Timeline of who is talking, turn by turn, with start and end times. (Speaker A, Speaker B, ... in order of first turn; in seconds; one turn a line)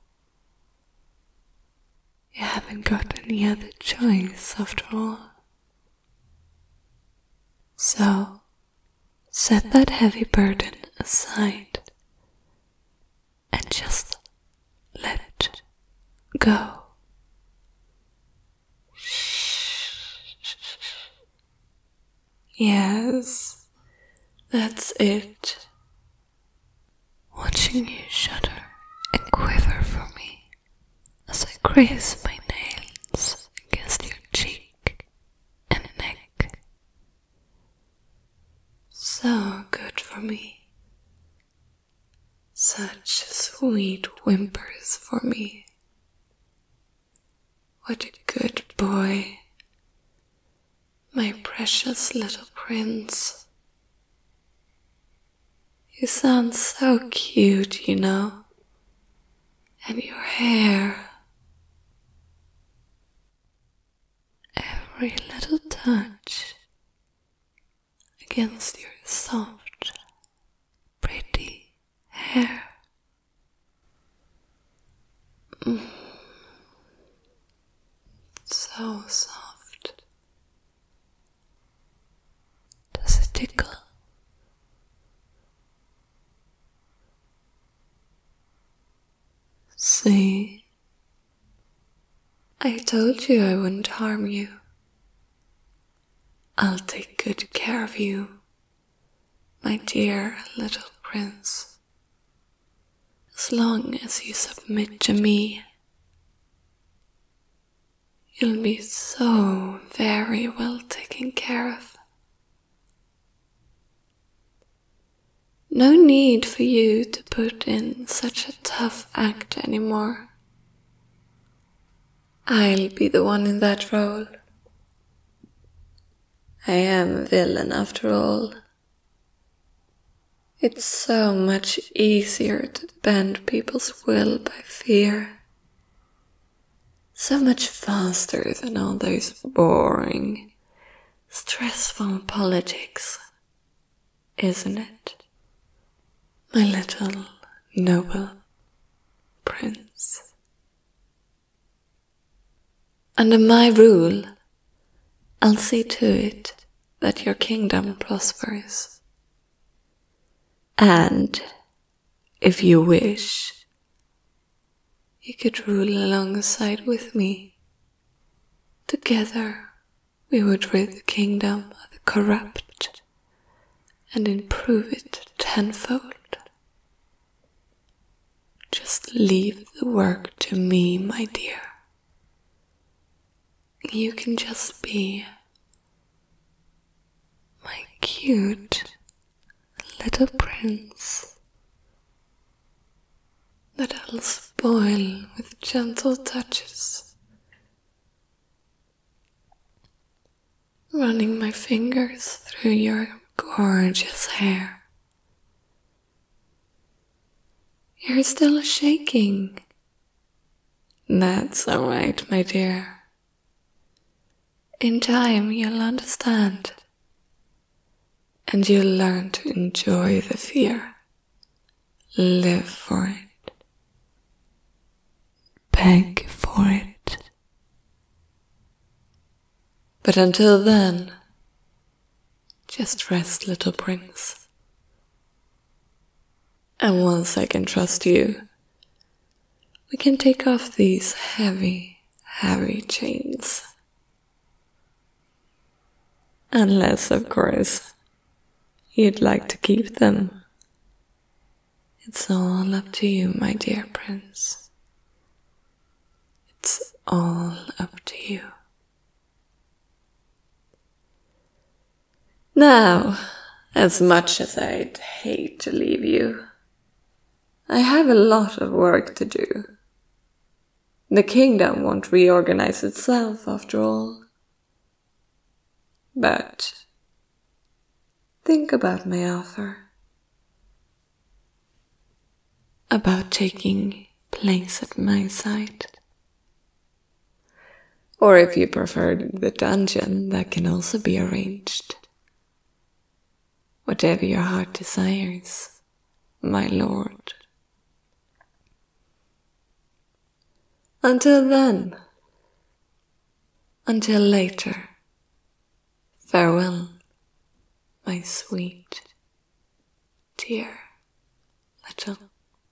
Speaker A: 2.3-5.3
Speaker A: 7.8-8.4
Speaker A: 9.3-11.9
Speaker A: 13.5-14.2
Speaker A: 14.9-15.6
Speaker A: 16.4-16.9
Speaker A: 19.0-19.7
Speaker A: 22.6-23.6
Speaker A: 24.5-25.7
Speaker A: 27.3-30.5
Speaker A: 31.3-35.0
Speaker A: 35.7-36.6
Speaker A: 38.9-40.6
Speaker A: 42.5-45.7
Speaker A: 47.8-49.4
Speaker A: 51.1-53.4
Speaker A: 55.9-58.4
Speaker A: 59.8-61.1
Speaker A: 64.5-66.6
Speaker A: 68.2-69.9
Speaker A: 71.0-72.8
Speaker A: 75.6-76.2
Speaker A: 78.5-80.0
Speaker A: 82.9-83.8
Speaker A: 89.8-90.6
Speaker A: 92.6-94.6
Speaker A: 96.6-98.4
Speaker A: 99.6-101.8
Speaker A: 103.3-105.6
Speaker A: 108.3-112.0
Speaker A: 115.7-120.3
Speaker A: 122.5-124.3
Speaker A: 126.6-128.5
Speaker A: 130.6-135.4
Speaker A: 137.1-140.5
Speaker A: 141.3-143.2
Speaker A: 144.4-145.2
Speaker A: 146.5-148.4
Speaker A: 149.4-150.3
Speaker A: 153.2-154.3
Speaker A: 155.4-159.0
Speaker A: 160.8-161.5
Speaker A: 162.4-163.6
Speaker A: 165.2-167.6
Speaker A: 168.9-169.7
Speaker A: 170.3-173.0
Speaker A: 174.1-176.4
Speaker A: 178.7-181.7
Speaker A: 183.9-185.3
Speaker A: 187.6-188.9
Speaker A: 189.9-191.3
Speaker A: 193.8-197.1
Speaker A: 200.9-204.8
Speaker A: 208.0-209.6
Speaker A: 211.1-213.0
Speaker A: 214.8-216.8
Speaker A: 218.5-220.9
Speaker A: 222.1-223.4
Speaker A: 225.7-227.3
Speaker A: 230.0-231.2
Speaker A: 232.7-234.4
Speaker A: 236.8-238.4
Speaker A: 239.9-243.7
Speaker A: 246.5-247.9
Speaker A: 248.9-250.4
Speaker A: 252.0-254.7
Speaker A: 256.5-258.5
Speaker A: 262.5-266.4
Speaker A: 267.7-269.7
Speaker A: 271.1-274.2
Speaker A: 276.1-276.8
Speaker A: 278.4-279.9
Speaker A: 282.9-285.9
Speaker A: 288.2-292.0
Speaker A: 293.8-295.8
Speaker A: 296.4-297.4
Speaker A: 301.0-302.0
Speaker A: 303.9-304.9
Speaker A: 306.2-307.0
Speaker A: 308.0-309.1
Speaker A: 310.4-310.9
Speaker A: 311.8-312.3